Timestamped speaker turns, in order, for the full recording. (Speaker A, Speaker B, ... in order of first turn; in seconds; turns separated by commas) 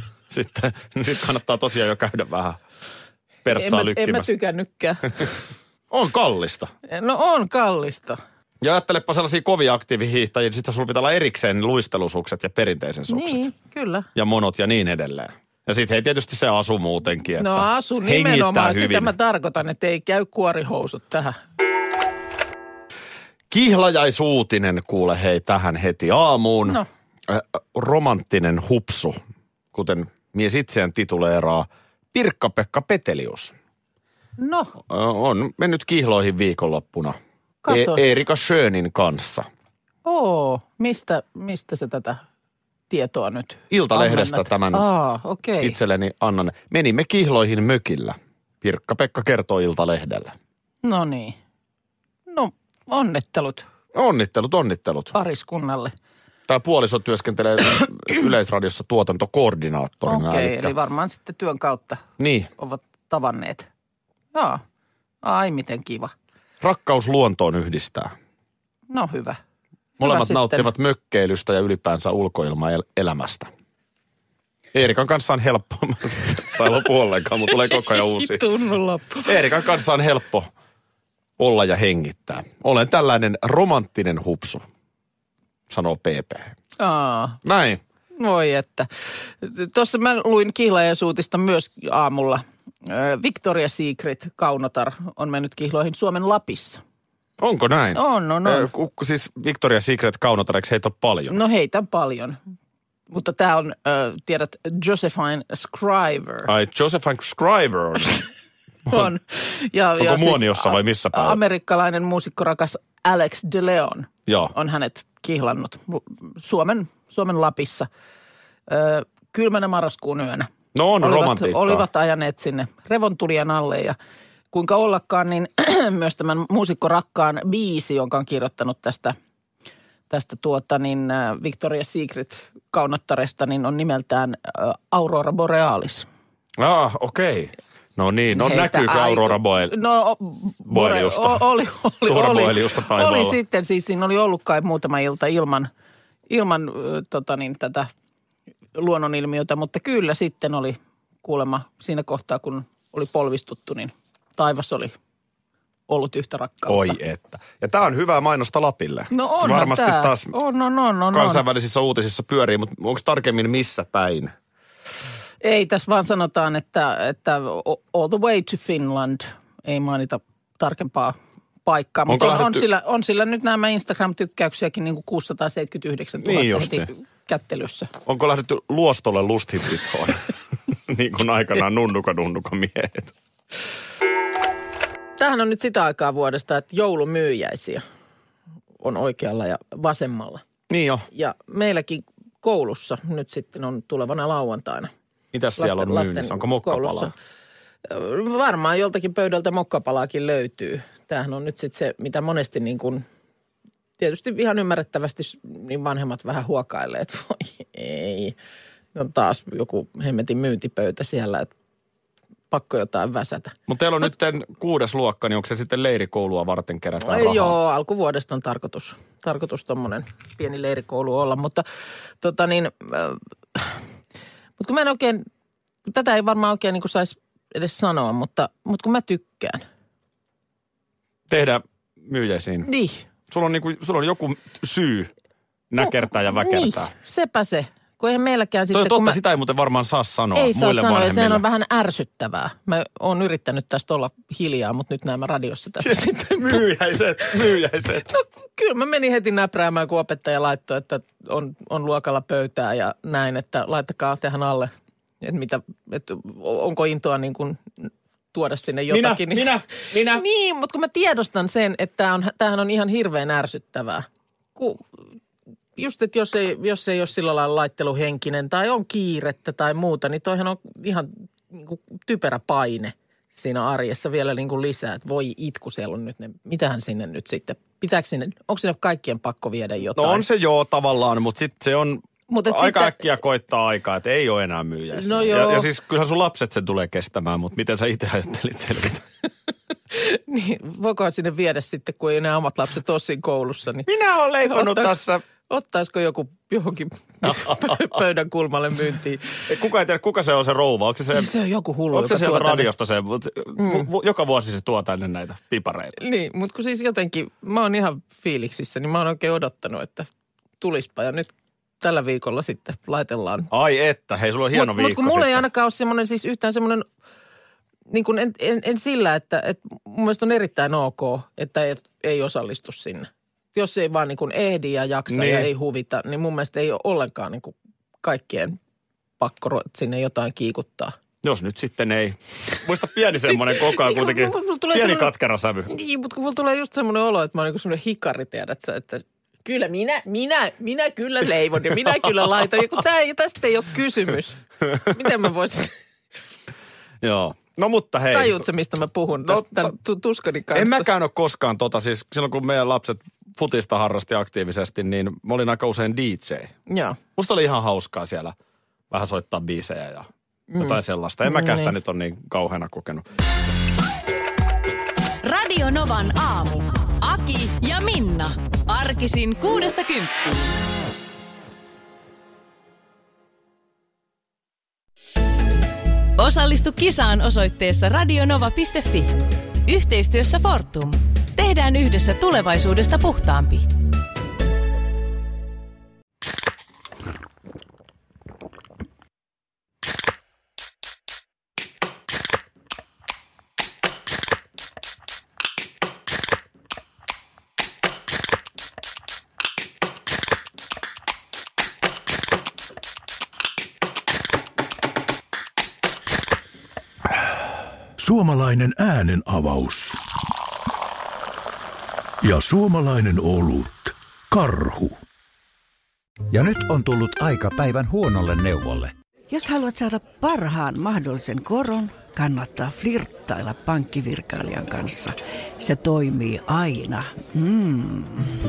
Speaker A: 0.3-2.6, Speaker A: 3.4-4.3, Speaker B: 3.5-5.4, Speaker A: 5.9-6.7, Speaker B: 6.9-8.2, Speaker A: 8.6-13.5, Speaker B: 13.1-14.1, Speaker A: 14.2-19.1, Speaker B: 17.4-21.4, Speaker A: 23.5-29.2, Speaker A: 29.7-33.5, Speaker B: 34.4-34.7, Speaker A: 34.8-39.5, Speaker B: 37.6-38.0, Speaker B: 40.0-42.2, Speaker B: 42.9-45.8, Speaker A: 43.7-44.9, Speaker A: 45.6-50.3, Speaker B: 50.8-51.4, Speaker B: 52.3-53.6, Speaker A: 53.9-55.1, Speaker B: 55.1-55.9, Speaker A: 56.5-60.7, Speaker B: 60.1-62.0, Speaker A: 62.2-62.5, Speaker B: 62.6-63.7, Speaker B: 64.3-64.6, Speaker B: 65.2-66.1, Speaker A: 66.6-68.1, Speaker B: 68.9-69.4, Speaker A: 70.0-73.5, Speaker B: 70.0-70.7, Speaker A: 74.7-78.5, Speaker B: 77.7-79.6, Speaker A: 79.2-80.5, Speaker A: 81.4-84.7, Speaker A: 85.7-86.5, Speaker B: 86.8-87.4, Speaker A: 87.4-87.8, Speaker B: 88.2-88.9, Speaker B: 89.4-96.8, Speaker A: 97.4-101.4, Speaker B: 98.0-98.7, Speaker B: 101.3-102.4, Speaker B: 103.1-106.5, Speaker A: 106.5-108.3, Speaker B: 108.9-117.9, Speaker A: 110.0-111.4, Speaker A: 114.3-114.5, Speaker B: 118.7-124.0, Speaker A: 120.7-121.8, Speaker B: 124.5-129.2, Speaker B: 130.1-136.1, Speaker A: 136.6-139.8, Speaker B: 138.3-145.7, Speaker A: 140.7-141.4, Speaker A: 142.1-143.4, Speaker B: 146.3-147.9, Speaker B: 148.8-154.9, Speaker B: 155.9-157.0, Speaker A: 156.7-160.3, Speaker B: 159.1-161.4, Speaker A: 161.1-164.3, Speaker B: 165.4-177.9, Speaker A: 172.1-172.7, Speaker A: 176.2-176.9, Speaker A: 178.1-183.1, Speaker B: 185.2-187.8, Speaker B: 188.8-190.4, Speaker A: 190.7-191.1, Speaker B: 191.1-194.9, Speaker A: 195.3-197.1, Speaker B: 195.6-197.1, Speaker B: 197.9-203.0, Speaker B: 204.0-208.4, Speaker B: 208.9-211.5, Speaker B: 212.5-213.6, Speaker A: 213.7-217.6, Speaker B: 217.0-221.6, Speaker B: 222.2-223.8, Speaker B: 224.6-225.2, Speaker B: 225.9-229.6, Speaker A: 231.3-232.7, Speaker B: 232.7-233.0, Speaker A: 233.3-235.1, Speaker A: 235.7-236.9, Speaker B: 236.3-239.2, Speaker A: 238.7-241.4, Speaker B: 240.3-246.6, Speaker A: 245.8-248.1, Speaker B: 248.1-254.7, Speaker B: 255.2-264.8, Speaker A: 258.9-260.2, Speaker B: 265.8-280.3, Speaker A: 280.0-289.1, Speaker B: 282.3-283.0, Speaker B: 284.9-285.7, Speaker B: 289.9-293.9, Speaker A: 293.9-295.2, Speaker B: 294.4-299.5, Speaker A: 297.2-298.0, Speaker A: 299.5-301.3, Speaker B: 301.1-302.7, Speaker A: 301.9-306.0, Speaker B: 303.6-303.9, Speaker B: 306.0-311.3, Speaker B: 311.8-313.5, Speaker A: 313.5-315.4, Speaker B: 314.5-316.9, Speaker B: 317.9-328.6, Speaker A: 325.1-325.5, Speaker B: 329.2-330.9, Speaker A: 331.2-335.7, Speaker B: 333.1-335.1, Speaker B: 335.7-345.7, Speaker A: 347.0-348.4, Speaker B: 348.1-350.9, Speaker A: 349.2-349.7, Speaker A: 350.5-356.6, Speaker B: 356.7-357.0, Speaker A: 357.1-358.4, Speaker A: 358.9-363.1, Speaker B: 360.5-361.8, Speaker C: 365.2-370.5, Speaker C: 376.2-383.6, Speaker D: 408.0-410.0, Speaker D: 412.2-415.0, Speaker E: 416.3-418.9, Speaker F: 419.3-428.4